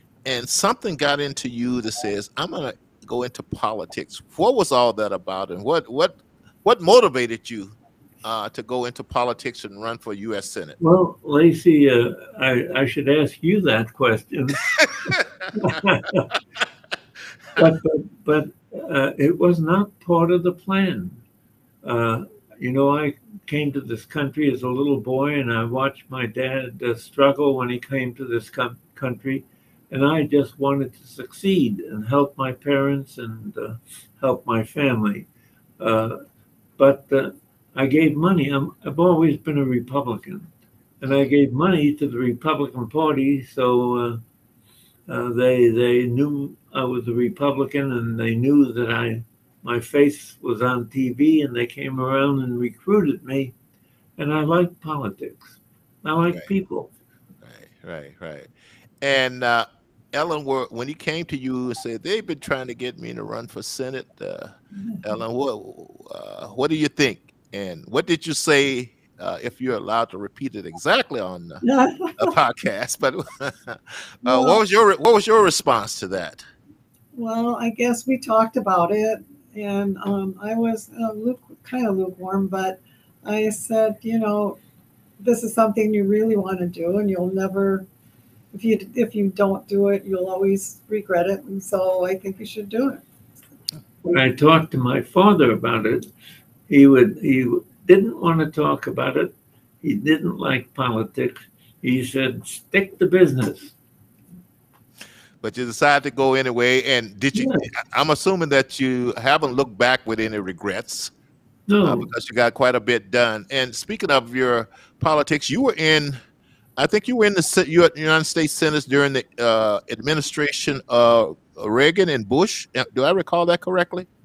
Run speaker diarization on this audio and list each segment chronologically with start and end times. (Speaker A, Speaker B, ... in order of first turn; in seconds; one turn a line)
Speaker A: 0.2-10.8
Speaker B: 10.8-16.3
Speaker A: 14.8-15.2
Speaker B: 17.6-21.2
Speaker B: 21.8-35.3
Speaker B: 35.8-36.2
Speaker B: 36.8-40.5
Speaker B: 41.0-44.2
Speaker B: 45.1-53.5
Speaker B: 54.2-56.9
Speaker A: 57.4-58.5
Speaker A: 59.0-71.6
Speaker C: 71.6-72.3
Speaker A: 72.2-76.4
Speaker C: 74.2-74.6
Speaker C: 77.1-84.6
Speaker C: 85.2-87.8
Speaker C: 88.5-93.0
Speaker B: 94.0-96.1
Speaker B: 96.7-103.7
Speaker A: 105.4-111.1
Speaker B: 107.3-107.7
Speaker B: 111.7-112.1
Speaker A: 111.8-116.2
Speaker A: 116.8-124.1